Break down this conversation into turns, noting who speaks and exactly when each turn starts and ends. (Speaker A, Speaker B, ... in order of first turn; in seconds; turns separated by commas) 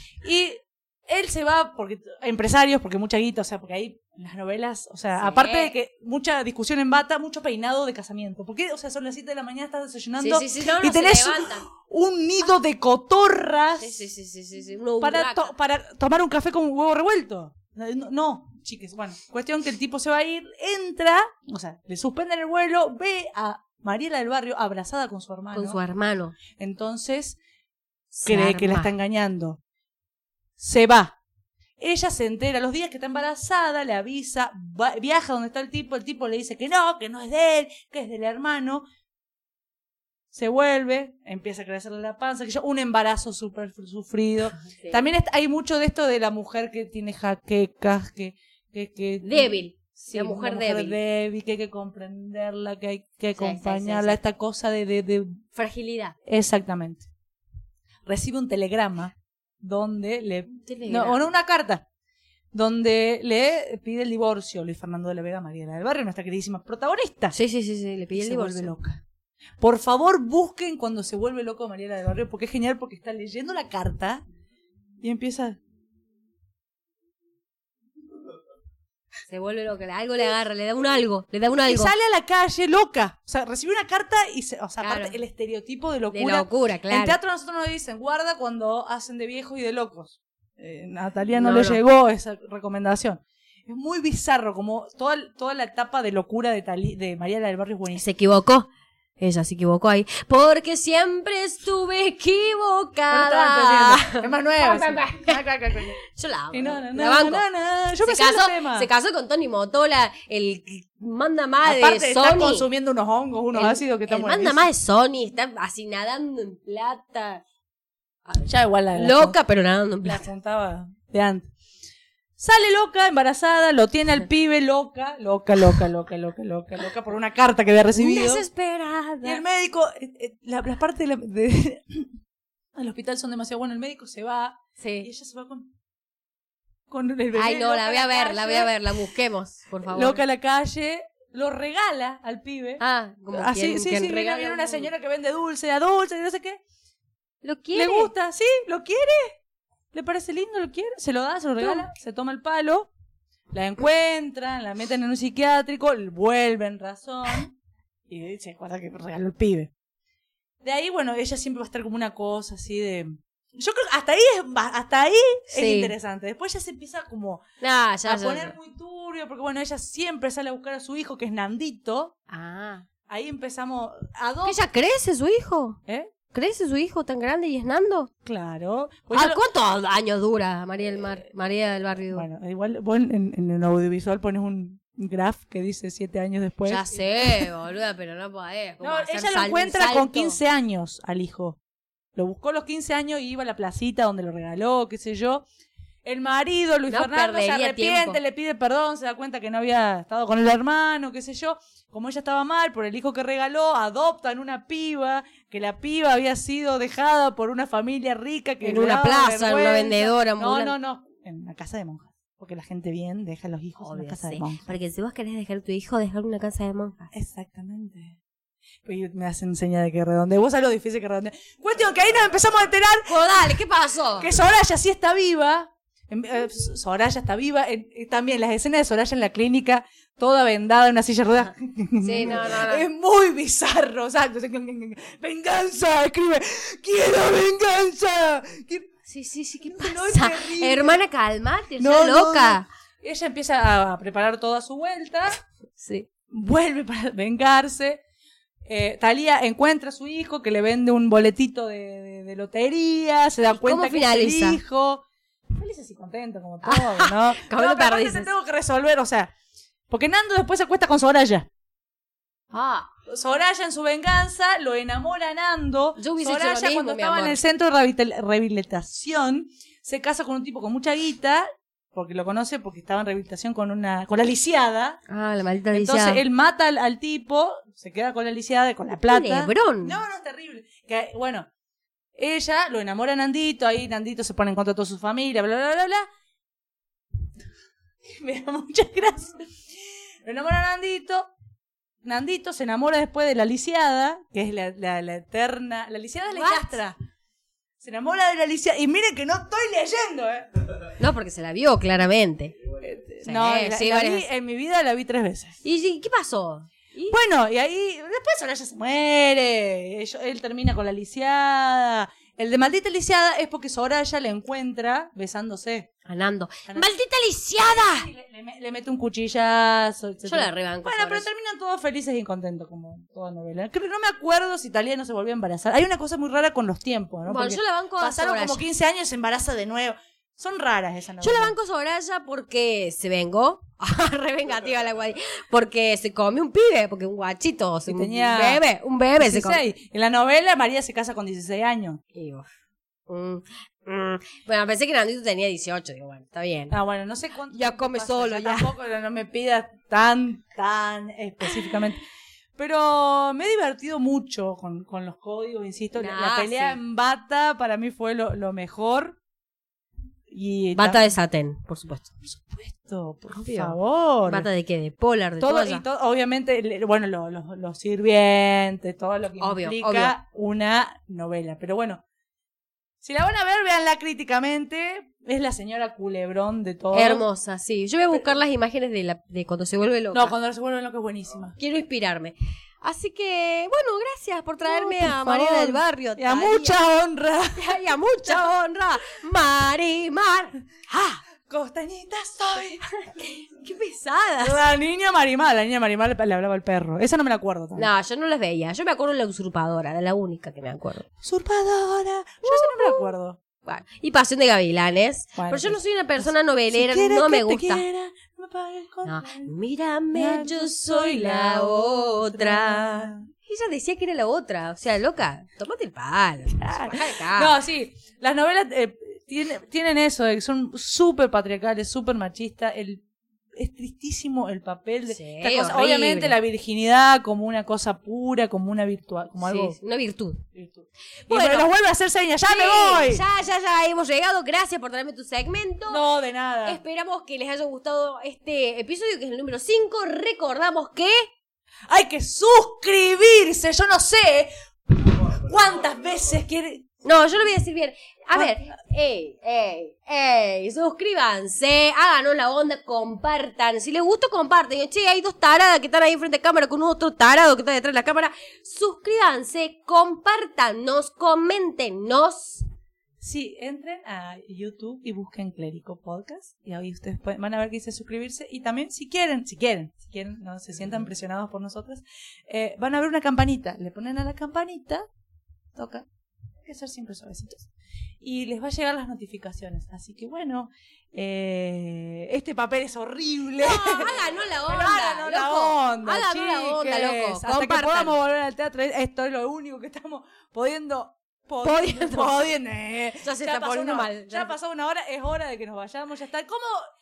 Speaker A: 0.2-14.0, Speaker B: 5.2-5.7, Speaker B: 10.2-11.7, Speaker B: 13.8-15.5, Speaker A: 15.0-25.8, Speaker B: 25.5-26.4, Speaker A: 26.5-27.4, Speaker B: 28.1-28.9, Speaker A: 28.2-29.6, Speaker A: 30.6-31.2, Speaker A: 31.8-38.9, Speaker A: 40.3-55.4, Speaker B: 44.7-45.0, Speaker B: 49.2-51.0, Speaker B: 53.4-54.2, Speaker B: 55.5-56.1, Speaker A: 56.2-57.1, Speaker A: 58.0-61.8, Speaker B: 60.6-61.2, Speaker A: 62.5-67.3, Speaker B: 67.3-68.7, Speaker A: 68.1-69.0, Speaker A: 69.6-74.2, Speaker A: 75.0-75.6, Speaker B: 79.3-81.9, Speaker A: 81.6-98.0, Speaker B: 84.8-85.2, Speaker B: 86.1-87.2, Speaker B: 91.4-91.8, Speaker B: 98.0-105.4, Speaker A: 103.1-106.0, Speaker B: 106.0-107.5, Speaker A: 106.5-108.9, Speaker B: 108.0-112.7, Speaker A: 111.6-114.7, Speaker B: 113.5-117.4, Speaker A: 118.3-119.4, Speaker B: 118.9-120.2, Speaker A: 120.0-121.5, Speaker A: 122.4-128.4, Speaker B: 127.9-129.4, Speaker A: 129.2-132.1, Speaker A: 132.8-135.7, Speaker B: 134.8-135.1, Speaker A: 136.9-139.1, Speaker B: 137.3-140.2, Speaker A: 139.9-142.8, Speaker B: 142.8-144.9, Speaker A: 143.3-146.6, Speaker B: 147.4-148.1, Speaker A: 147.7-149.3, Speaker A: 149.9-152.9, Speaker B: 151.6-151.9, Speaker A: 153.5-157.5, Speaker A: 158.1-159.7, Speaker A: 160.6-167.4, Speaker B: 165.5-165.9, Speaker B: 167.6-168.5, Speaker A: 168.0-172.1, Speaker B: 172.3-172.8, Speaker A: 173.1-174.6, Speaker B: 174.4-175.8, Speaker B: 176.3-178.1, Speaker A: 178.2-179.4, Speaker B: 179.1-182.2, Speaker A: 182.1-187.5, Speaker B: 186.7-190.4, Speaker A: 188.8-191.6, Speaker A: 192.2-195.4, Speaker A: 196.0-214.7, Speaker B: 196.9-198.2, Speaker B: 208.6-210.7, Speaker B: 213.8-217.1, Speaker A: 217.1-218.2, Speaker A: 218.8-223.6, Speaker B: 223.1-224.3, Speaker A: 224.2-238.9, Speaker B: 232.0-232.8, Speaker B: 239.1-242.7, Speaker A: 239.6-241.0, Speaker A: 241.8-245.4, Speaker B: 245.8-246.1, Speaker A: 246.3-248.0, Speaker A: 248.7-259.3, Speaker B: 253.5-254.6, Speaker B: 256.6-258.3, Speaker A: 259.9-261.5, Speaker B: 262.5-262.9, Speaker A: 263.1-275.0, Speaker B: 266.0-267.4, Speaker B: 275.1-276.2, Speaker A: 275.7-281.5, Speaker B: 279.1-280.0, Speaker A: 282.2-286.1, Speaker A: 288.0-289.5, Speaker A: 290.2-291.3, Speaker A: 292.0-296.9, Speaker B: 296.3-296.7, Speaker A: 297.8-300.5, Speaker B: 301.0-302.5, Speaker A: 302.8-305.6, Speaker B: 303.2-304.2, Speaker B: 305.6-307.2, Speaker A: 307.1-315.9, Speaker B: 316.1-318.1, Speaker A: 317.6-331.5, Speaker B: 320.2-321.2, Speaker B: 327.2-328.6, Speaker B: 331.2-339.6, Speaker A: 337.9-338.6, Speaker A: 339.2-342.0, Speaker B: 342.1-342.5, Speaker B: 343.1-346.8, Speaker A: 346.7-352.0, Speaker B: 347.5-348.7, Speaker A: 352.6-359.2, Speaker B: 355.9-356.8, Speaker A: 360.3-361.1, Speaker B: 360.7-362.1, Speaker A: 362.2-364.5, Speaker B: 363.3-365.8, Speaker A: 365.4-372.0, Speaker B: 369.4-370.1, Speaker A: 373.0-377.2, Speaker B: 376.9-380.3, Speaker A: 380.1-381.6, Speaker B: 381.6-386.8, Speaker A: 384.6-388.5, Speaker B: 387.6-391.2, Speaker A: 391.4-392.9, Speaker B: 392.9-394.6, Speaker A: 394.4-397.9, Speaker B: 397.8-401.1, Speaker A: 401.2-403.4, Speaker B: 402.4-403.1, Speaker B: 403.6-407.8, Speaker A: 405.4-409.5, Speaker B: 409.0-417.5, Speaker A: 410.1-413.2, Speaker A: 416.6-423.0, Speaker A: 423.6-429.8, Speaker B: 425.1-426.4, Speaker B: 429.4-430.4, Speaker A: 430.5-433.2, Speaker B: 431.2-431.6, Speaker B: 432.4-436.0, Speaker A: 435.9-436.8, Speaker B: 436.6-441.3, Speaker A: 441.9-446.9, Speaker B: 447.0-462.6, Speaker A: 448.3-448.6, Speaker A: 463.2-475.0, Speaker A: 475.8-476.1, Speaker A: 476.6-477.7, Speaker A: 478.2-496.9, Speaker B: 483.6-488.2, Speaker B: 491.6-492.4, Speaker B: 493.2-494.5